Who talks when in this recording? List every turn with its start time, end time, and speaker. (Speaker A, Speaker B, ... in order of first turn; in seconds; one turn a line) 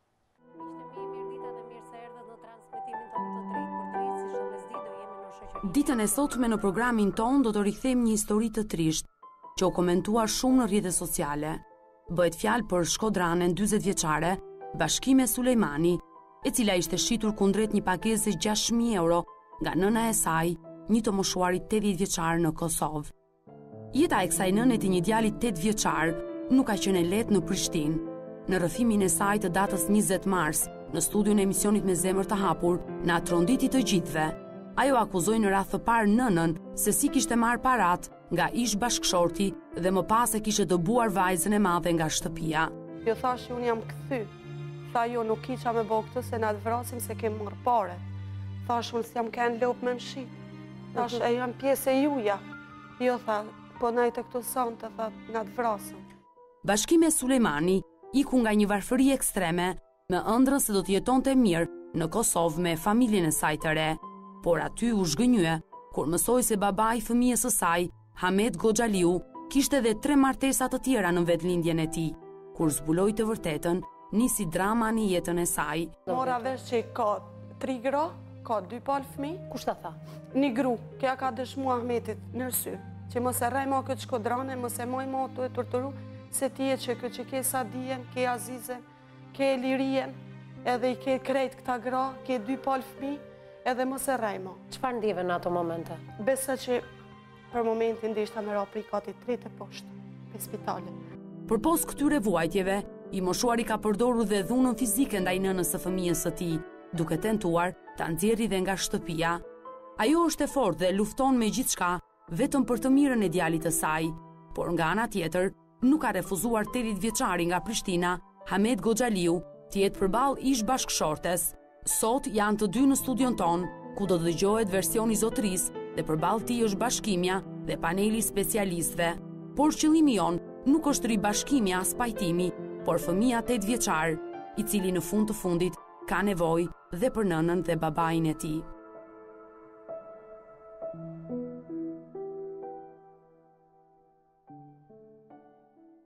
Speaker A: 0.6-6.7
Speaker B: 5.6-23.1
Speaker B: 23.9-42.7
Speaker C: 43.0-44.3
Speaker C: 44.9-48.0
Speaker C: 48.6-50.4
Speaker C: 50.9-52.4
Speaker C: 53.0-56.0
Speaker B: 56.6-76.0
Speaker C: 76.1-79.5
Speaker A: 76.1-76.4
Speaker A: 79.5-80.0
Speaker C: 80.3-94.6
Speaker A: 94.7-96.0
Speaker C: 96.2-96.9
Speaker C: 97.5-100.9
Speaker B: 101.5-109.4
Speaker B: 110.0-138.7